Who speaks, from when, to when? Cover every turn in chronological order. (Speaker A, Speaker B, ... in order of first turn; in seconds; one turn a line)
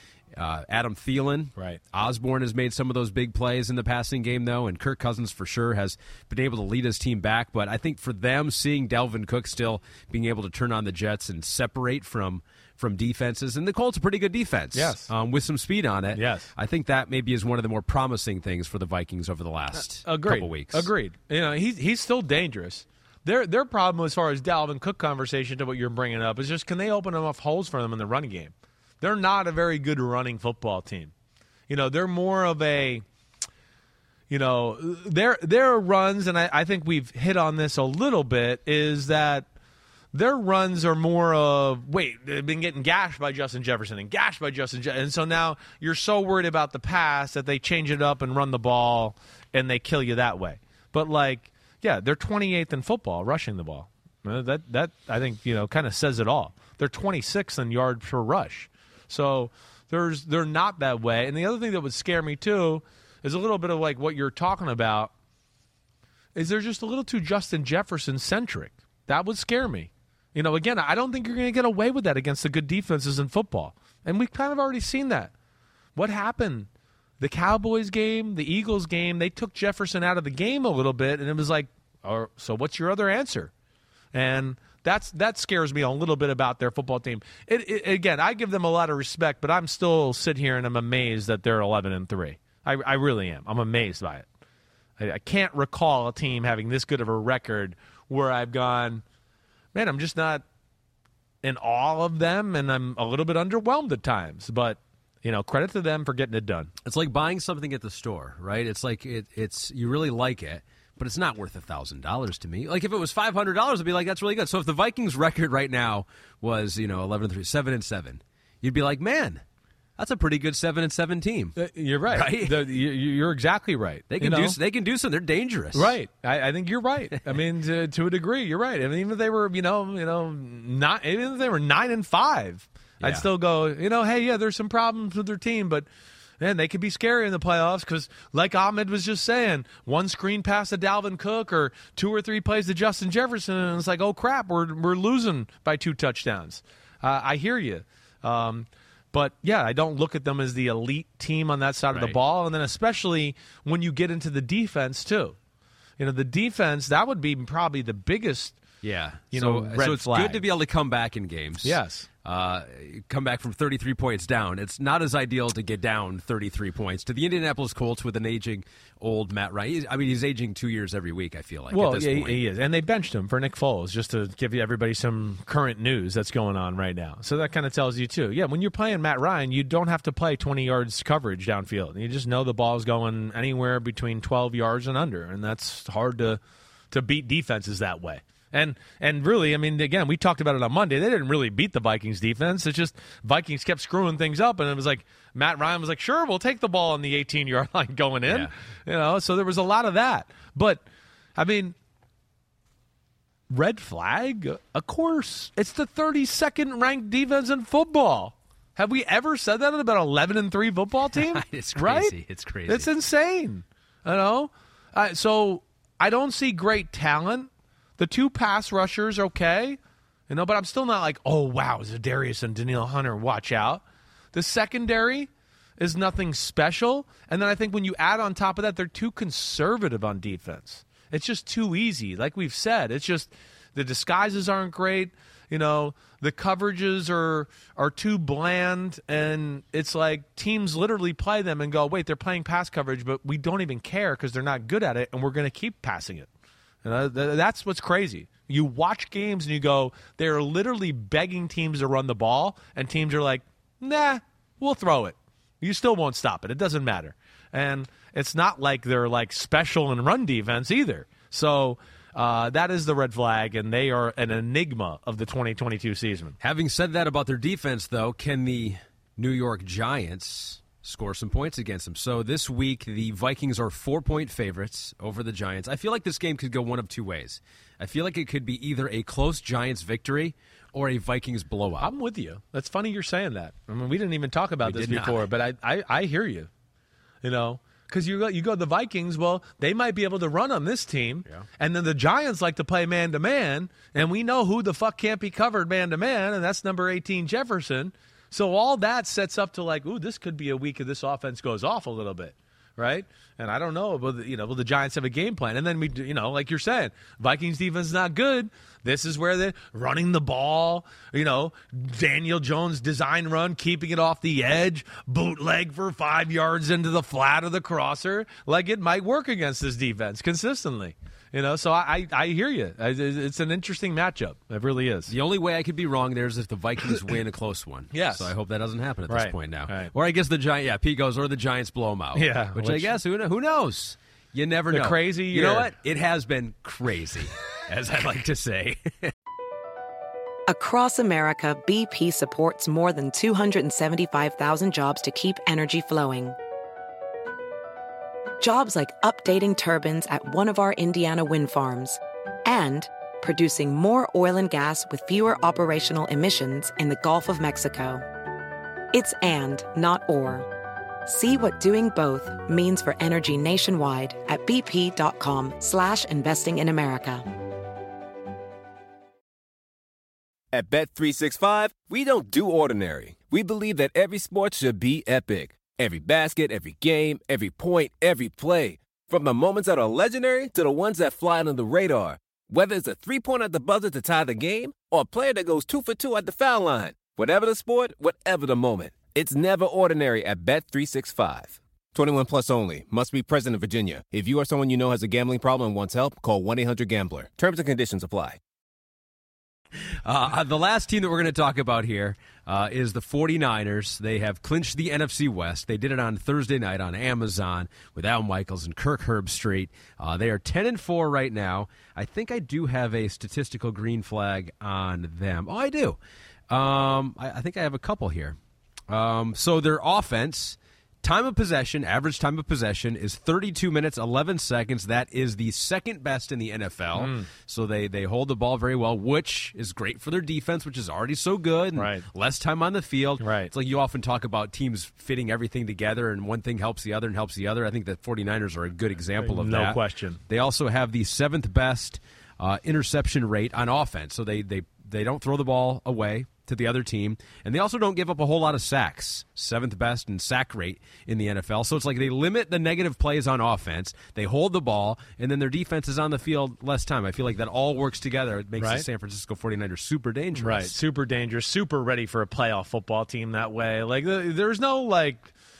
Speaker A: 0.3-20.9
Speaker B: 14.7-15.1
Speaker B: 16.1-16.5
Speaker B: 20.0-31.1
Speaker B: 31.7-33.0
Speaker B: 34.3-39.5
Speaker B: 40.1-65.1
Speaker B: 66.3-75.3
Speaker B: 76.0-76.7
Speaker B: 77.2-83.5
Speaker B: 84.1-94.2
Speaker B: 95.0-99.0
Speaker B: 99.7-100.4
Speaker B: 101.4-106.7
Speaker A: 106.8-119.4
Speaker A: 120.0-121.5
Speaker B: 121.6-124.5
Speaker A: 122.1-122.7
Speaker A: 124.1-126.0
Speaker B: 125.7-135.9
Speaker A: 133.0-133.2
Speaker B: 136.4-155.3
Speaker A: 151.9-152.2
Speaker B: 156.0-158.6
Speaker A: 158.8-172.4
Speaker B: 159.3-160.4
Speaker B: 161.6-162.1
Speaker B: 171.7-186.4
Speaker B: 186.9-200.8
Speaker A: 198.2-198.5
Speaker B: 201.3-201.8
Speaker B: 203.5-212.1
Speaker A: 211.1-212.9
Speaker B: 212.7-219.8
Speaker B: 220.3-246.3
Speaker B: 246.8-266.4
Speaker A: 266.4-281.9
Speaker B: 281.8-286.5
Speaker A: 284.6-285.2
Speaker B: 287.2-325.1
Speaker A: 325.1-339.1
Speaker B: 327.9-328.3
Speaker B: 329.1-329.9
Speaker B: 332.1-332.9
Speaker B: 334.7-335.7
Speaker C: 340.5-346.4
Speaker C: 348.4-358.0
Speaker C: 358.9-360.5
Speaker C: 361.1-367.2
Speaker D: 370.5-398.4
Speaker A: 400.0-416.0
Speaker A: 416.5-418.4
Speaker A: 418.9-460.8
Speaker B: 426.9-427.3
Speaker B: 431.8-432.0
Speaker B: 433.2-433.5
Speaker B: 439.2-440.2
Speaker B: 458.6-458.9
Speaker B: 460.4-465.3